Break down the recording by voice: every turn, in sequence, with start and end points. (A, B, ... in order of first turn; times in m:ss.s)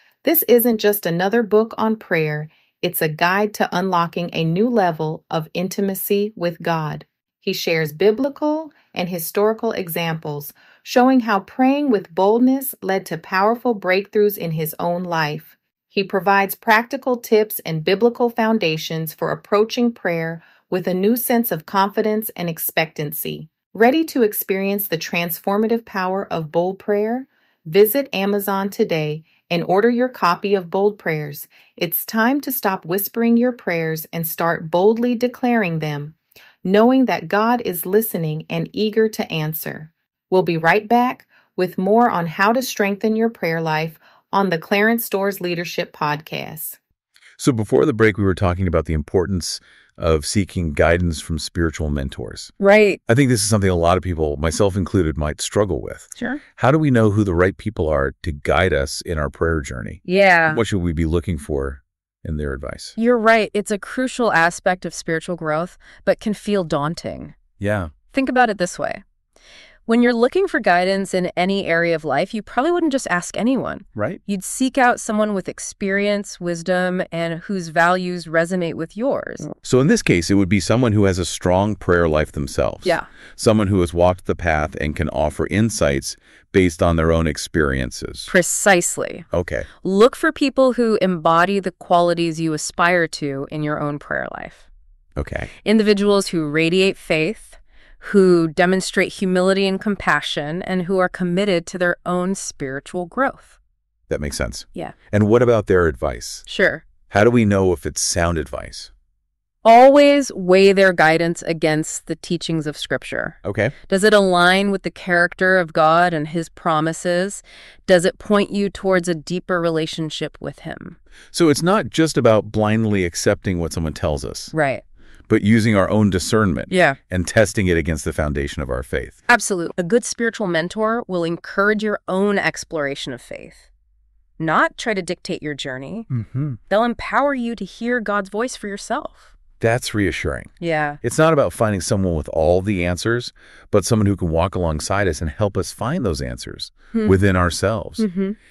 0:00.2-0:46.8 A
0:47.4-0:52.5 B
0:52.6-0:53.0 C
0:53.1-1:02.9 B
0:56.2-0:56.4 C
1:00.0-1:00.6 C
1:03.0-1:07.4 C
1:07.6-1:07.9 B
1:08.1-1:09.0 C
1:09.8-1:19.5 C
1:13.9-1:14.2 B
1:19.6-1:28.3 B
1:28.3-1:29.3 C
1:29.3-1:29.7 B
1:29.8-1:34.6 C
1:35.2-1:35.5 B
1:35.6-1:43.6 C
1:44.1-1:46.5 B
1:46.5-1:46.8 C
1:47.1-1:48.9 B
1:49.6-2:01.0 C
1:53.4-1:53.7 B
2:01.3-2:04.5 B
2:04.5-2:04.8 C
2:05.3-2:09.2 B
2:06.7-2:07.0 C
2:09.3-2:13.6 C
2:14.4-2:16.1 C
2:16.1-2:16.6 B
2:16.7-2:19.3 C
2:19.6-2:28.0 B
2:20.6-2:21.0 C
2:28.0-2:28.4 C